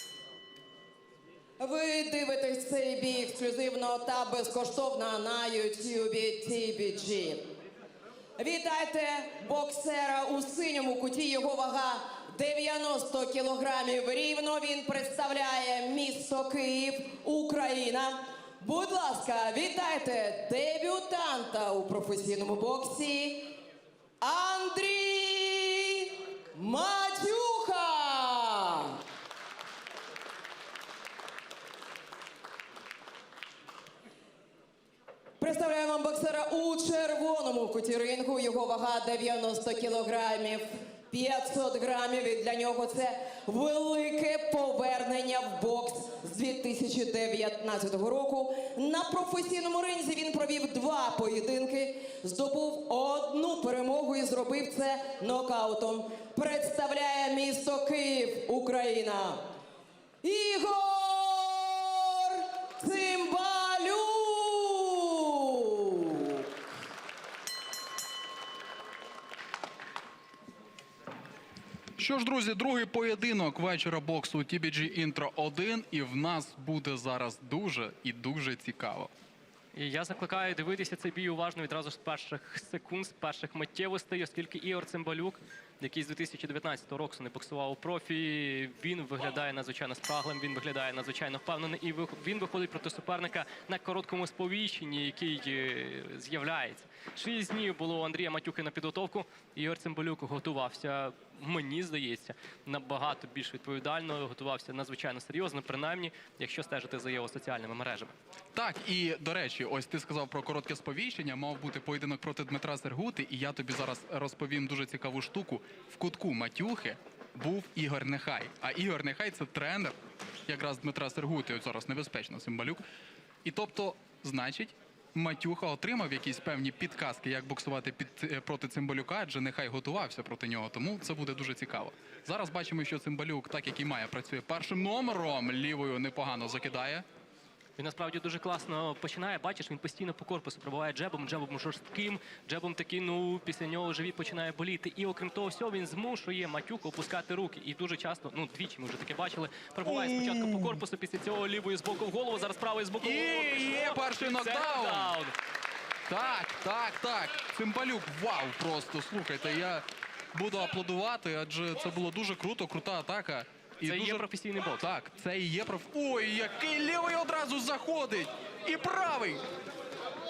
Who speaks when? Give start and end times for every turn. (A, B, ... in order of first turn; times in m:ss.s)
0:01.6-0:07.4 A
0:08.4-0:23.5 A
0:24.2-0:29.0 A
0:35.4-0:59.4 A
1:00.2-1:06.5 A
1:12.0-1:19.1 B
1:19.8-1:48.1 C
1:48.6-2:00.0 B
2:00.5-2:02.8 B
2:03.4-2:17.0 B
2:17.8-2:35.3 C
2:33.0-2:35.1 B
2:36.1-2:44.3 B
2:43.8-2:44.8 C
2:44.8-2:49.4 B